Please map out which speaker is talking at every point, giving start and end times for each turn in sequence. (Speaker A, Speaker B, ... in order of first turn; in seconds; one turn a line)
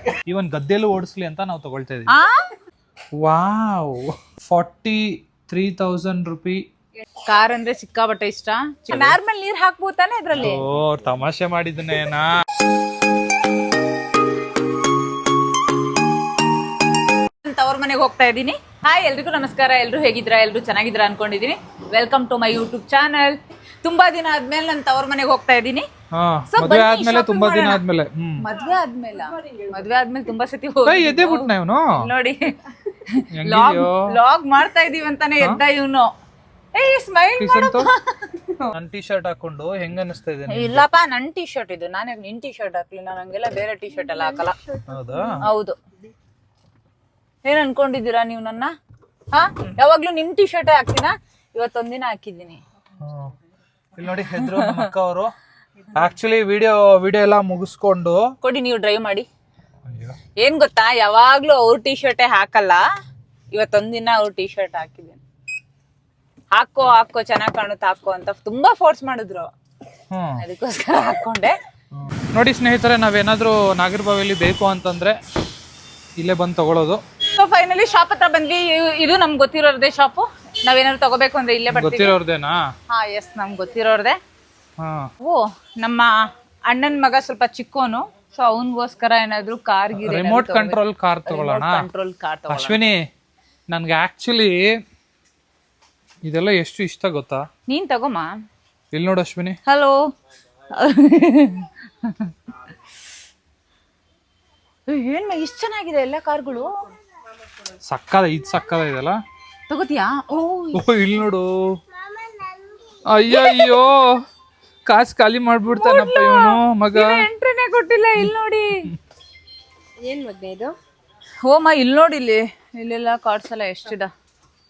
Speaker A: 0.3-2.1
Speaker B: 2.1-2.3
Speaker A: 3.1-6.6
Speaker B: 7.3-10.6
Speaker A: 8.9-9.2
Speaker A: 10.3-12.3
Speaker B: 17.4-25.8
Speaker A: 26.1-28.4
Speaker B: 26.5-27.8
Speaker B: 28.4-32.5
Speaker C: 29.1-30.0
Speaker A: 30.9-31.9
Speaker B: 33.1-36.1
Speaker A: 33.4-34.0
Speaker B: 36.7-38.5
Speaker A: 37.4-37.9
Speaker A: 38.7-40.8
Speaker B: 40.5-44.6
Speaker C: 44.6-45.3
Speaker A: 44.9-45.4
Speaker B: 45.4-45.8
Speaker B: 47.4-48.7
Speaker B: 49.3-52.6
Speaker A: 53.0-53.3
Speaker A: 54.0-55.3
Speaker B: 54.1-54.9
Speaker A: 55.9-58.3
Speaker B: 58.4-59.3
Speaker A: 59.8-60.2
Speaker B: 60.4-62.8
Speaker B: 63.5-65.2
Speaker B: 66.5-69.5
Speaker A: 70.1-70.4
Speaker B: 70.4-71.5
Speaker A: 71.9-75.2
Speaker A: 76.2-77.0
Speaker B: 77.3-82.2
Speaker A: 81.7-82.6
Speaker B: 82.9-84.2
Speaker A: 84.8-85.1
Speaker B: 85.2-86.1
Speaker B: 86.7-92.8
Speaker A: 89.9-91.8
Speaker A: 92.5-93.0
Speaker A: 93.7-94.8
Speaker A: 96.2-97.4
Speaker B: 97.7-98.3
Speaker A: 98.9-99.6
Speaker B: 99.7-100.0
Speaker B: 100.7-102.3
Speaker B: 104.9-106.7
Speaker A: 107.9-109.2
Speaker B: 109.7-110.8
Speaker A: 110.7-111.8
Speaker A: 113.1-114.2
Speaker B: 113.3-113.8
Speaker A: 114.8-117.2
Speaker B: 115.7-118.9
Speaker C: 120.0-120.7
Speaker B: 121.4-124.1